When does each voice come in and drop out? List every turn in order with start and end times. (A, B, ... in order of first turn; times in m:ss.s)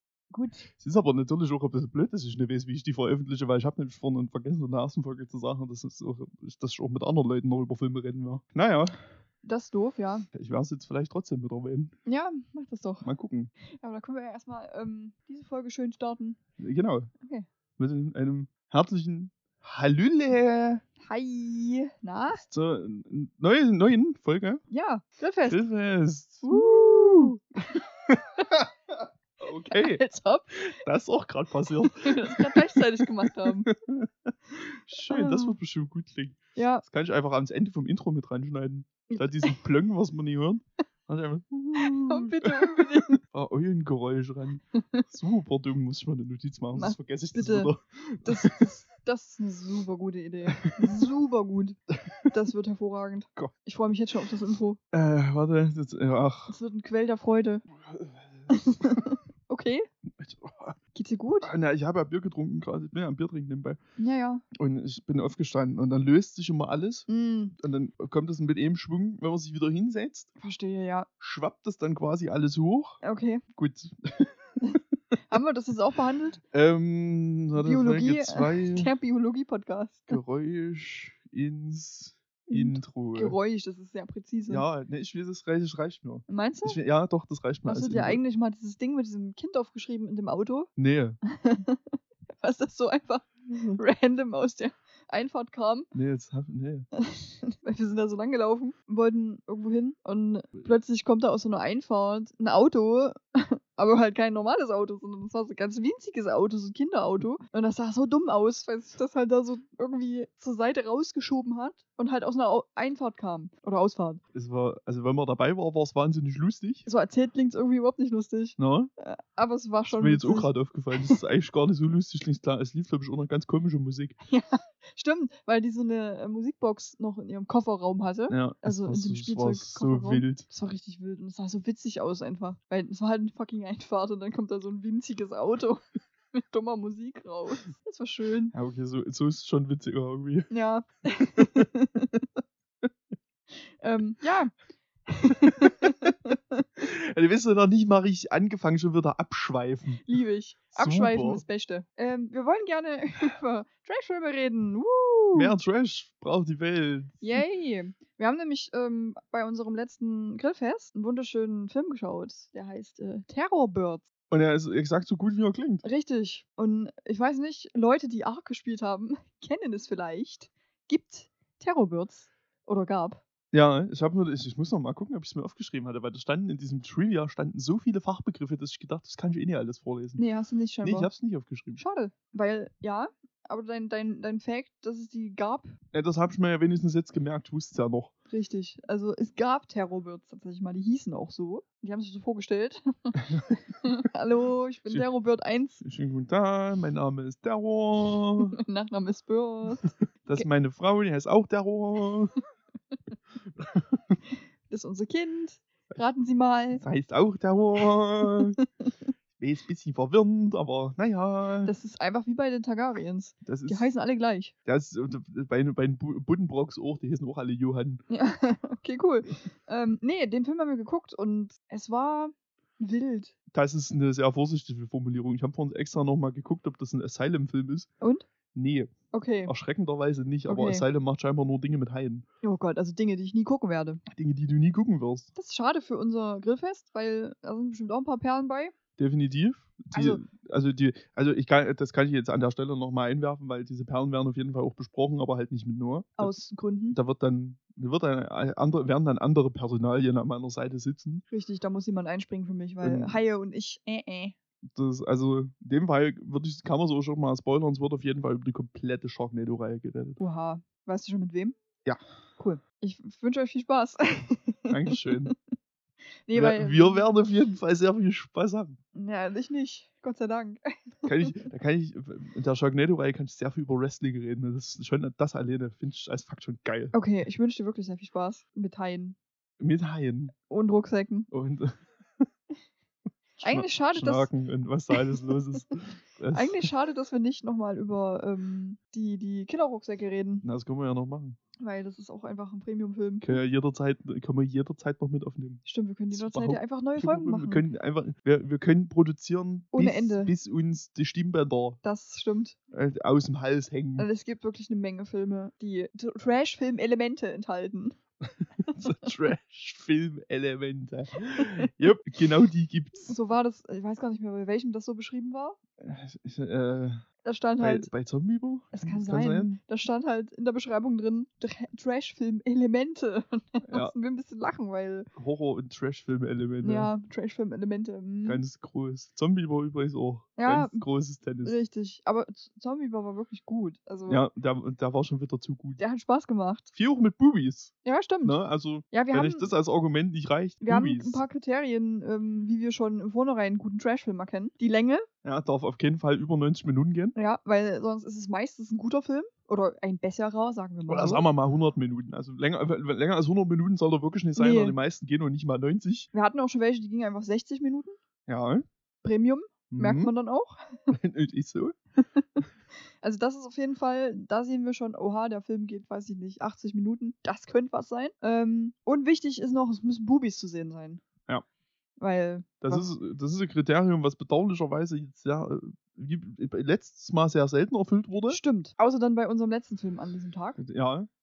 0:00.3-0:00.7 A
0:00.8-0:09.0 B
0:09.4-0:10.3 A
0:10.3-0:11.9 B
0:12.1-0:13.1 A
0:13.0-0:13.5 B
0:13.6-0:16.4 A
0:16.6-0:17.1 B
0:17.2-0:17.5 A
0:17.8-0:20.8 B
0:21.0-0:22.4 A
0:22.4-0:24.6 B
0:24.7-0:25.6 A
0:25.5-0:27.3 B
0:26.4-0:27.4 A
0:28.1-0:28.7 B
0:29.4-0:30.0 B
0:29.7-0:30.6 A
0:30.6-0:48.7 B
0:32.0-0:33.7 A
0:35.1-0:35.6 A
0:36.6-0:36.8 A
0:39.1-0:39.6 A
0:41.7-0:43.2 A
0:44.8-0:45.1 A
0:46.8-0:47.7 A
0:48.2-0:54.8 A
0:50.5-0:51.1 B
0:54.9-0:56.6 B
0:56.5-0:57.6 A
0:57.7-0:58.5 B
0:58.5-0:59.9 A
1:00.1-1:00.8 B
1:00.9-1:01.5 A
1:01.4-1:03.8 B
1:04.0-1:04.4 A
1:04.5-1:07.1 B
1:07.1-1:07.6 A
1:07.6-1:10.3 B
1:10.4-1:11.1 A
1:11.2-1:13.0 B
1:13.0-1:13.4 A
1:13.6-1:14.6 B
1:14.6-1:16.4 A
1:16.5-1:18.9 B
1:17.6-1:20.2 A
1:20.1-1:23.4 B
1:22.5-1:24.6 A
1:24.5-1:28.2 B
1:26.3-1:26.8 A
1:27.7-1:30.7 A
1:30.8-1:31.2 B
1:31.2-1:35.9 A
1:35.9-1:36.9 B
1:37.0-1:54.2 A
1:54.3-1:56.8 B
1:56.8-2:01.2 A
1:58.6-1:58.9 B
1:59.9-2:04.2 B
2:04.3-2:15.8 A
2:08.3-2:10.4 B
2:16.4-2:18.5 A
2:18.5-2:20.5 B
2:20.5-2:22.2 A
2:21.4-2:21.6 B
2:23.8-2:24.5 A
2:25.1-2:26.6 A
2:26.8-2:30.0 B
2:30.0-2:35.5 A
2:30.8-2:31.4 B
2:35.4-2:37.4 B
2:37.2-2:44.1 A
2:44.3-2:45.8 B
2:45.8-2:53.2 A
2:53.5-3:00.2 B
3:00.2-3:01.1 A
3:00.8-3:01.8 B
3:01.8-3:05.7 A
3:05.9-3:08.1 B
3:08.3-3:15.8 A
3:15.8-3:18.6 B
3:18.4-3:20.5 A
3:20.3-3:22.4 B
3:23.6-3:24.2 B
3:24.7-3:26.8 A
3:26.8-3:28.6 B
3:28.2-3:29.1 A
3:29.4-3:31.7 B
3:31.7-3:34.5 A
3:33.4-3:33.9 B
3:34.7-3:38.0 B
3:38.1-3:43.3 A
3:43.5-3:47.9 B
3:48.0-3:48.3 A
3:48.5-3:48.9 B
3:49.1-3:49.5 A
3:49.5-3:52.2 B
3:50.5-3:50.8 A
3:52.4-3:54.0 A
3:54.1-3:55.3 B
3:55.4-3:58.8 A
3:59.0-4:06.3 B
3:59.9-4:00.2 A
4:06.2-4:07.0 A
4:06.9-4:11.2 B
4:11.3-4:14.4 A
4:12.8-4:13.2 B
4:14.6-4:20.2 B
4:20.2-4:21.6 A
4:22.4-4:25.3 A
4:24.7-4:25.3 B
4:26.3-4:27.1 A
4:26.3-4:28.8 B
4:28.9-4:31.4 A
4:31.0-4:36.9 B
4:36.9-4:39.2 A
4:39.6-4:40.3 B
4:40.5-4:41.3 A
4:41.3-4:42.3 B
4:43.4-4:44.3 A
4:43.4-4:46.7 B
4:44.9-4:45.2 A
4:46.3-4:50.4 A
4:50.4-4:51.4 B
4:51.6-4:53.4 A
4:53.2-5:01.8 B
4:55.7-4:57.6 A
4:59.7-5:00.3 A
5:01.8-5:02.6 A
5:02.7-5:04.1 B
5:04.0-5:08.0 A
5:08.7-5:08.9 A
5:08.8-5:13.1 B
5:11.2-5:11.6 A
5:13.0-5:15.6 A
5:15.8-5:17.0 B
5:17.2-5:17.9 A
5:17.6-5:19.6 B
5:18.7-5:25.1 A
5:25.2-5:26.9 B
5:26.6-5:28.4 A
5:28.2-5:31.6 B
5:30.4-5:30.8 A
5:31.4-5:34.2 A
5:34.1-5:35.8 B
5:35.8-5:36.7 A
5:36.8-5:41.2 B
5:37.8-5:38.4 A
5:38.9-5:39.5 A
5:40.6-5:45.0 A
5:45.2-5:47.2 B
5:47.2-5:51.2 A
5:50.9-5:56.1 B
5:54.4-5:54.8 A
5:56.1-5:58.0 A
5:58.3-5:58.7 B
5:59.0-6:00.9 A
5:59.7-6:00.1 B
6:00.9-6:01.8 B
6:02.0-6:02.2 A
6:03.0-6:11.0 A
6:12.0-6:12.9 A
6:12.6-6:18.4 B
6:18.3-6:20.6 A
6:20.6-6:21.1 B